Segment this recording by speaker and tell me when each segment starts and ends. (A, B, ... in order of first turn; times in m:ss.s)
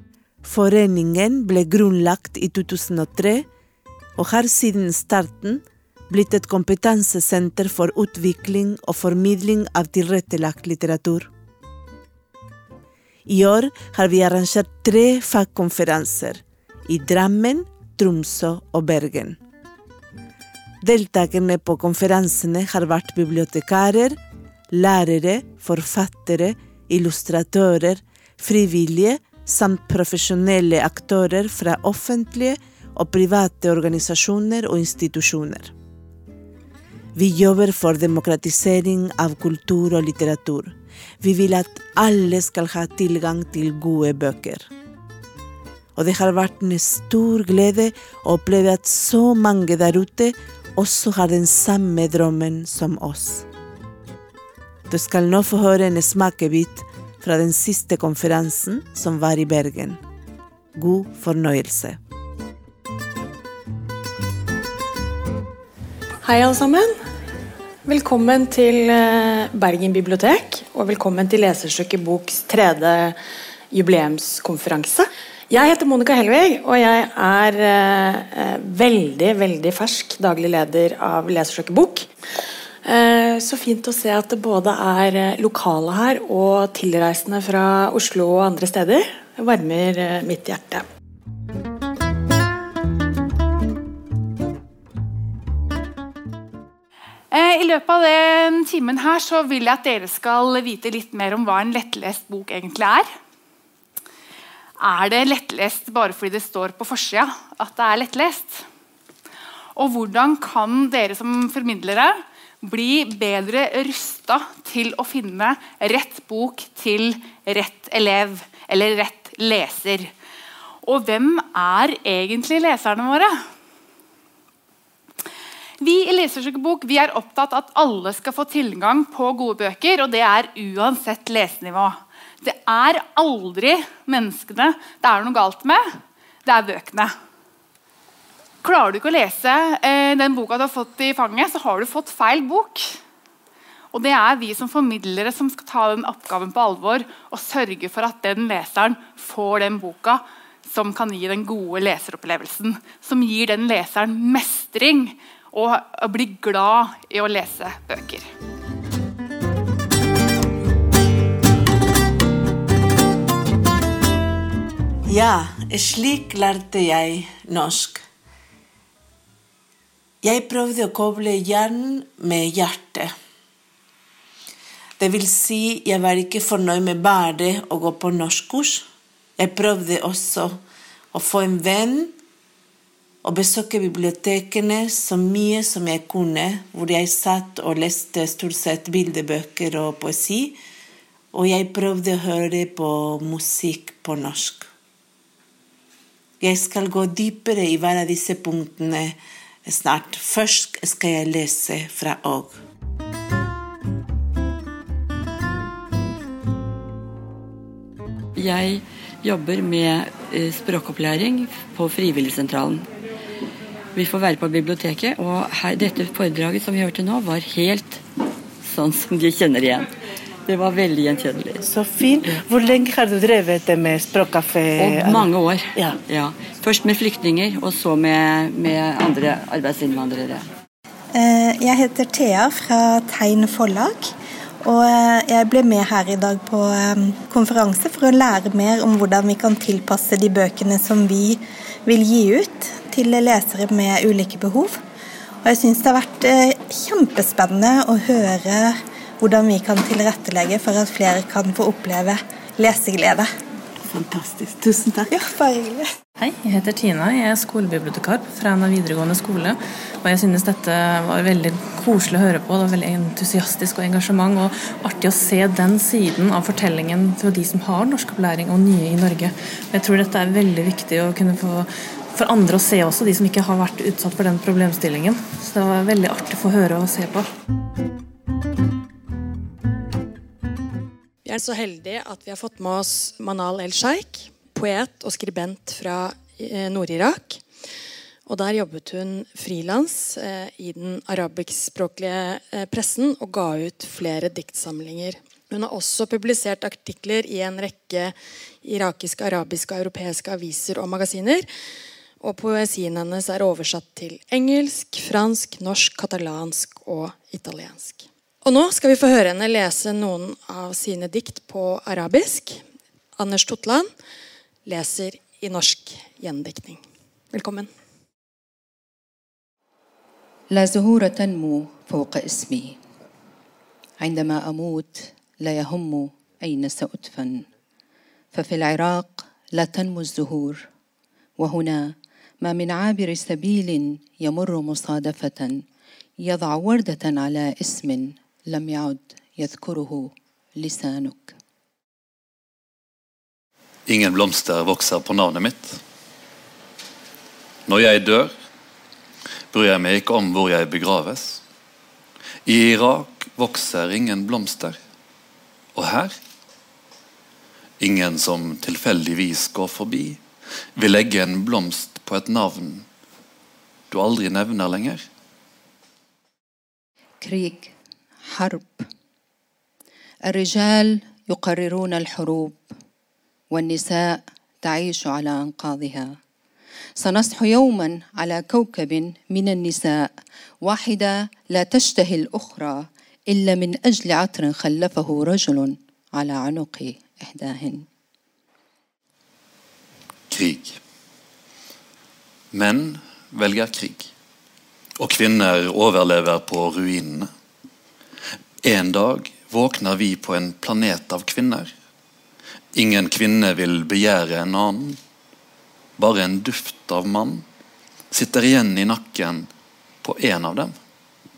0:00.4-0:03.5 A
0:04.2-0:11.3 A
0:13.3-0:19.4 A
0:20.8-0:24.2 A
0:24.7-0:35.7 A
0:37.2-0:44.7 A
0:46.0-0:53.4 A
0:54.9-1:00.0 A
1:00.8-1:02.0 A
1:06.2-1:06.9 B
1:07.8-1:13.2 B
1:13.7-1:22.1 B
1:22.8-1:30.8 B
1:37.3-1:43.1 C
1:44.8-1:48.6 C
1:49.8-2:00.1 C
2:00.8-2:03.3 C
2:05.8-2:15.8 C
2:16.4-2:17.1 C
2:18.6-2:22.9 C
2:23.9-2:38.3 C
2:45.1-2:48.0 A
2:50.2-2:53.1 A
2:55.0-2:58.8 A
2:59.4-3:00.6 A
3:01.1-3:02.1 A
3:03.2-3:10.6 A
3:11.3-3:14.7 A
3:16.4-3:22.6 A
3:28.4-3:32.9 D
3:33.9-3:38.0 D
3:38.6-3:39.9 D
3:40.4-3:41.7 D
3:41.6-3:46.0 A
3:44.8-3:50.4 D
3:51.1-3:54.1 E
3:54.6-4:04.8 E
4:05.4-4:13.3 E
4:13.9-4:15.1 A
4:15.1-4:15.9 E
4:16.2-4:37.2 F
4:41.2-4:47.4 B
4:48.2-5:01.5 B
5:02.2-5:12.6 B
5:13.2-5:13.9 B
5:14.6-5:17.7 B
5:20.5-5:22.8 G
5:24.0-5:27.4 G
5:28.3-5:30.6 G
5:31.4-5:35.6 G
5:36.2-5:41.3 G
5:43.9-5:45.8 H
5:47.7-5:48.3 H
5:49.5-5:51.4 H
5:52.4-5:54.8 H
5:55.7-5:56.1 H
5:57.8-6:00.2 H
6:00.8-6:02.8 H
6:03.9-6:05.0 H
6:07.2-6:07.7 G
6:08.3-6:08.9 G
6:10.2-6:12.7 G
6:13.5-6:16.2 G
6:17.0-6:20.1 G
6:20.6-6:27.8 G
6:30.3-6:30.8 H
6:32.5-6:34.1 H
6:35.0-6:37.3 H
6:38.6-6:41.7 H
6:42.7-6:45.0 H
6:46.0-6:47.4 H
6:48.1-6:49.5 H
6:50.0-6:50.7 H